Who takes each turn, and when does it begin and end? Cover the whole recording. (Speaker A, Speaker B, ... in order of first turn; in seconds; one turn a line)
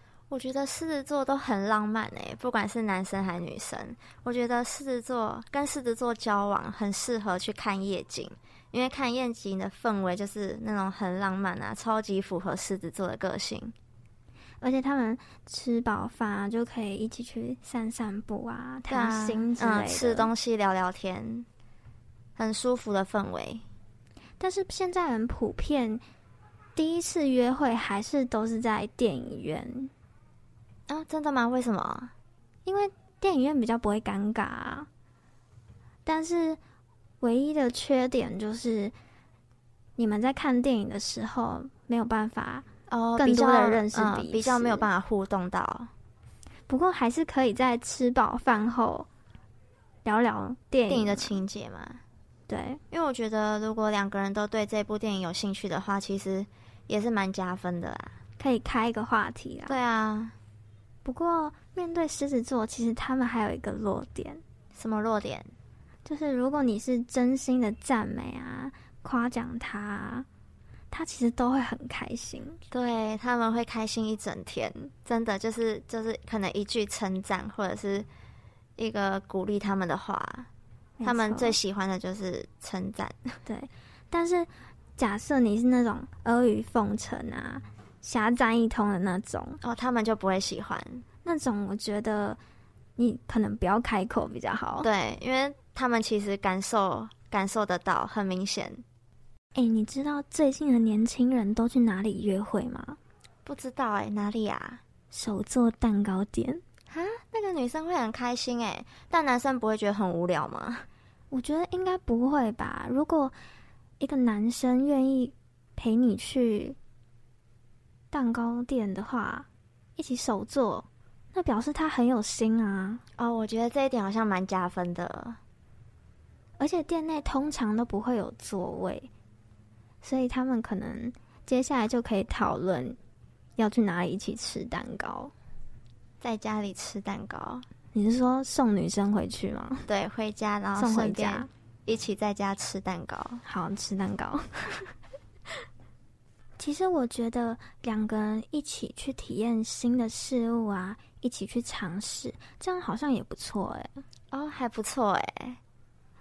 Speaker A: 0.3-13.8
Speaker B: 14.6-20.3
Speaker A: 18.9-21.5
Speaker A: 22.4-23.6
Speaker B: 24.4-26.0
Speaker B: 26.8-29.9
Speaker A: 30.9-32.1
Speaker B: 32.6-34.9
Speaker B: 36.1-36.6
Speaker B: 37.2-38.9
Speaker B: 40.0-44.9
Speaker A: 42.9-45.9
Speaker B: 46.7-49.1
Speaker B: 50.0-51.4
Speaker A: 50.9-52.0
Speaker B: 52.5-52.8
Speaker A: 52.9-58.2
Speaker B: 58.4-59.8
Speaker A: 59.7-60.4
Speaker B: 61.0-64.4
Speaker A: 64.8-65.5
Speaker B: 66.1-70.3
Speaker B: 70.9-72.6
Speaker A: 72.7-78.1
Speaker A: 78.8-80.5
Speaker B: 81.0-81.6
Speaker A: 81.0-83.4
Speaker B: 83.5-89.6
Speaker A: 89.6-91.0
Speaker B: 91.2-92.4
Speaker B: 93.0-94.9
Speaker A: 94.8-98.8
Speaker B: 99.5-103.0
Speaker A: 103.5-104.8
Speaker B: 105.1-106.6
Speaker A: 106.9-110.9
Speaker B: 111.3-113.3
Speaker B: 114.0-116.8
Speaker B: 118.1-123.0
Speaker A: 123.2-125.4
Speaker B: 126.6-129.1
Speaker B: 130.0-133.0
Speaker B: 133.6-135.3
Speaker A: 136.2-137.7
Speaker B: 137.9-139.9
Speaker A: 139.9-143.4
Speaker B: 140.8-141.5
Speaker B: 143.4-144.9
Speaker B: 146.6-154.0
Speaker A: 154.3-155.6